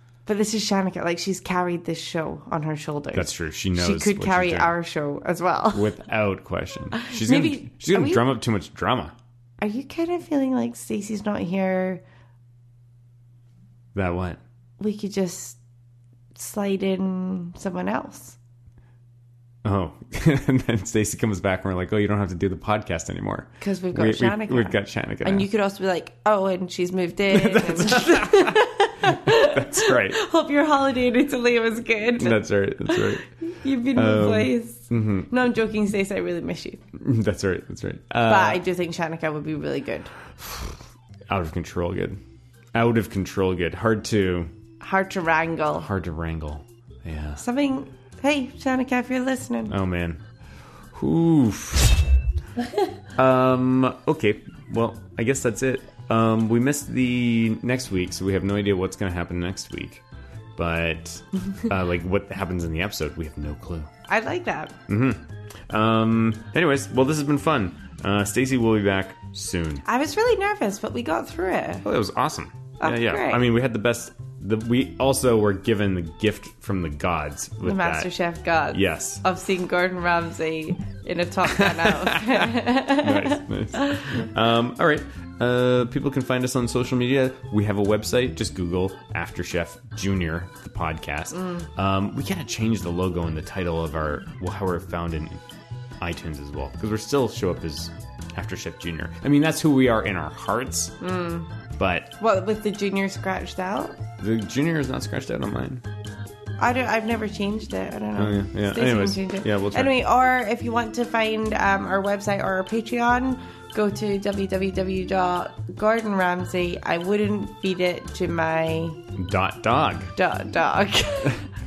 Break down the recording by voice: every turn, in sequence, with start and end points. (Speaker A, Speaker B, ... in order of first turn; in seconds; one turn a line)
Speaker A: 0.2-5.9
Speaker B: 3.1-4.7
Speaker B: 5.7-9.1
Speaker A: 6.9-8.2
Speaker A: 9.6-12.0
Speaker B: 13.9-14.4
Speaker A: 14.8-15.6
Speaker A: 16.3-18.4
Speaker B: 19.6-25.5
Speaker A: 23.6-36.8
Speaker B: 27.3-30.2
Speaker B: 32.2-33.2
Speaker B: 33.9-35.3
Speaker B: 36.9-38.6
Speaker A: 38.2-40.1
Speaker B: 40.4-42.2
Speaker B: 42.7-44.5
Speaker A: 44.8-45.9
Speaker B: 45.7-47.4
Speaker A: 47.4-49.7
Speaker B: 49.7-50.2
Speaker B: 50.9-52.0
Speaker B: 53.1-60.0
Speaker B: 60.5-63.9
Speaker A: 64.1-64.7
Speaker B: 64.9-69.8
Speaker A: 69.8-71.8
Speaker B: 71.8-78.1
Speaker A: 72.8-73.4
Speaker A: 77.6-84.2
Speaker B: 78.7-79.2
Speaker B: 81.5-95.4
Speaker B: 96.0-100.9
Speaker A: 101.0-101.5
Speaker B: 101.8-102.1
Speaker A: 102.2-104.0
Speaker B: 104.2-105.8
Speaker A: 106.6-119.0
Speaker B: 108.2-110.0
Speaker B: 119.2-120.1
Speaker A: 120.2-121.5